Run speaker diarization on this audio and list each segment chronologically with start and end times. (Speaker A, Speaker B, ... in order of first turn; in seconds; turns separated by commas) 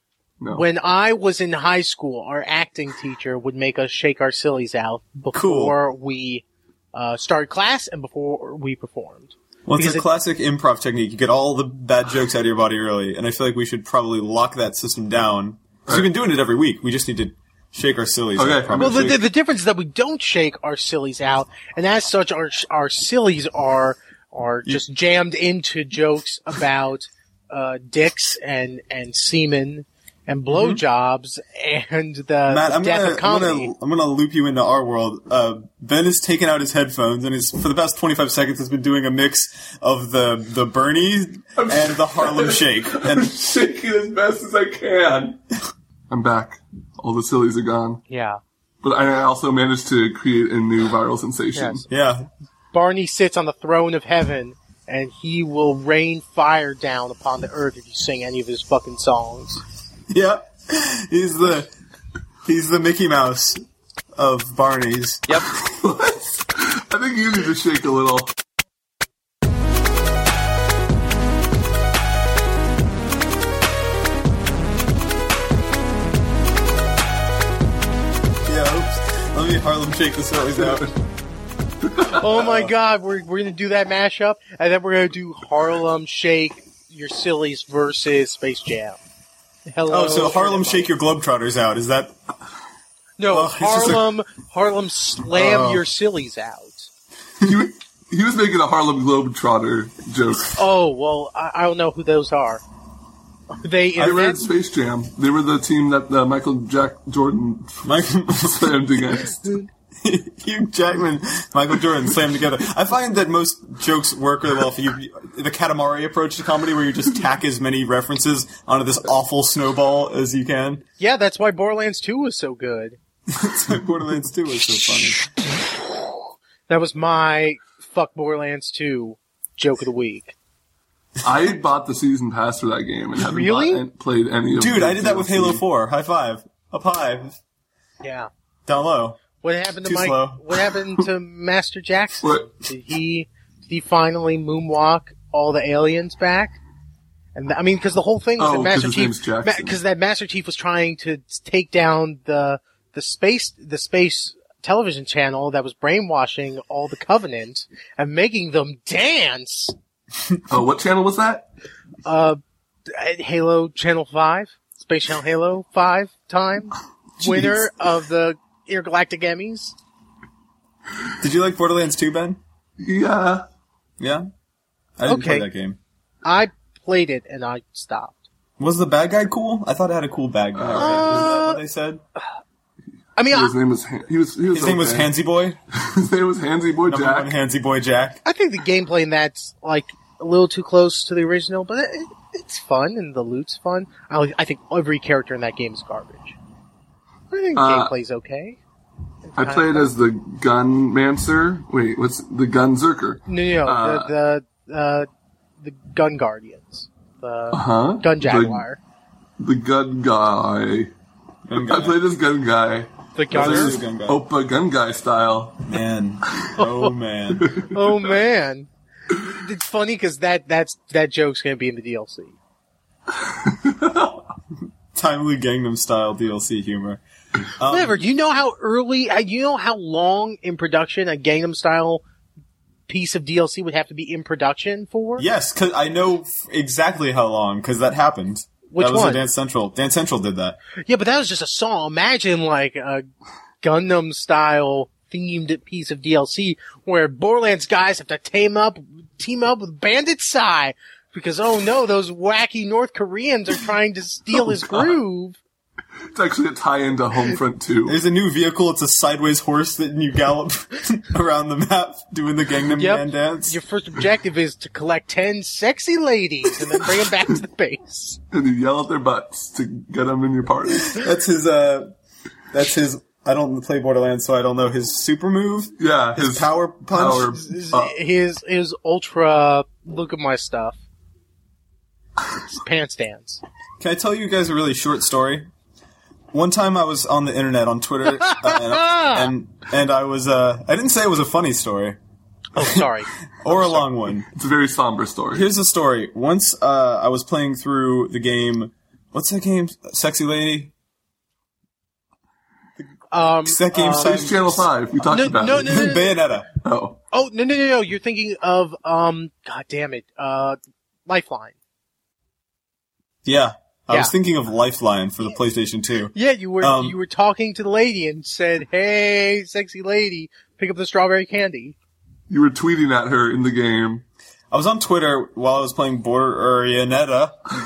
Speaker A: 0.5-10.1, Speaker B: 5.3-5.8, Speaker B: 9.7-19.2, Speaker C: 18.4-19.1, Speaker A: 18.8-33.7, Speaker B: 30.5-30.8, Speaker B: 32.5-43.3, Speaker C: 41.6-45.4, Speaker C: 46.1-48.0, Speaker A: 48.1-48.4, Speaker C: 48.8-51.8, Speaker A: 51.5-51.9, Speaker B: 51.9-52.3, Speaker A: 52.7-59.6, Speaker B: 60.1-61.7, Speaker B: 62.5-63.6, Speaker B: 64.2-65.4, Speaker C: 65.3-68.3, Speaker B: 78.5-80.9, Speaker C: 81.8-82.1, Speaker A: 82.1-89.0, Speaker B: 82.2-82.7, Speaker A: 89.7-90.9, Speaker B: 89.9-92.2, Speaker A: 93.2-96.9, Speaker B: 93.3-94.0, Speaker B: 95.3-95.8, Speaker C: 97.4-100.6, Speaker A: 100.5-102.6, Speaker A: 103.5-104.5, Speaker C: 104.0-109.7, Speaker B: 107.8-109.0, Speaker B: 110.0-120.8, Speaker A: 121.0-123.0, Speaker B: 123.3-125.3, Speaker A: 125.2-130.3, Speaker C: 131.2-135.6, Speaker A: 133.2-133.8, Speaker B: 134.6-137.4, Speaker A: 138.0-138.3, Speaker B: 138.7-139.2, Speaker A: 139.4-146.6, Speaker B: 139.8-140.5, Speaker C: 142.2-142.5, Speaker A: 147.3-159.8, Speaker C: 148.4-149.8, Speaker C: 160.5-161.5, Speaker A: 162.1-169.8, Speaker C: 167.2-167.5, Speaker B: 171.2-172.4, Speaker C: 172.8-173.5, Speaker B: 174.0-174.3, Speaker B: 175.0-175.8, Speaker A: 175.1-175.5, Speaker A: 176.2-178.2, Speaker B: 178.6-182.0, Speaker C: 180.6-181.3, Speaker A: 180.7-181.6, Speaker A: 183.2-183.5, Speaker C: 183.3-185.1, Speaker B: 184.5-185.6, Speaker C: 185.7-187.3, Speaker B: 186.9-188.2, Speaker A: 188.2-196.4, Speaker A: 197.3-198.6, Speaker C: 197.6-197.9, Speaker A: 199.3-199.9, Speaker C: 199.4-204.1, Speaker A: 203.3-205.1, Speaker A: 205.6-208.8, Speaker C: 207.5-208.6, Speaker C: 209.4-210.9, Speaker B: 211.5-212.0, Speaker C: 211.6-215.7, Speaker A: 213.2-213.9, Speaker B: 213.3-214.2, Speaker B: 215.7-217.6, Speaker A: 216.6-216.9, Speaker A: 217.5-222.4, Speaker C: 223.2-224.2, Speaker B: 224.9-227.0, Speaker B: 227.6-228.0, Speaker A: 227.7-232.0, Speaker A: 232.9-235.2, Speaker B: 235.2-240.6, Speaker A: 238.7-239.2, Speaker A: 240.8-243.0, Speaker A: 243.6-255.4, Speaker C: 254.4-255.0, Speaker C: 256.1-258.0, Speaker B: 257.9-263.6, Speaker A: 262.8-268.2, Speaker C: 268.3-271.0, Speaker B: 270.7-271.9, Speaker B: 272.5-277.4, Speaker C: 275.8-277.9, Speaker A: 277.3-280.8, Speaker A: 282.3-283.4, Speaker B: 283.8-285.5, Speaker B: 286.3-292.0, Speaker A: 288.1-289.3, Speaker A: 292.6-293.1, Speaker B: 292.6-292.9, Speaker B: 293.4-294.3, Speaker C: 293.6-295.5, Speaker B: 295.3-300.7, Speaker A: 303.1-304.5, Speaker B: 303.4-304.7, Speaker C: 304.0-305.8, Speaker A: 305.0-306.2, Speaker B: 305.5-306.5, Speaker C: 306.6-307.0, Speaker A: 307.1-311.6, Speaker B: 313.2-317.0, Speaker A: 316.1-321.8, Speaker C: 322.3-324.1, Speaker B: 324.5-327.5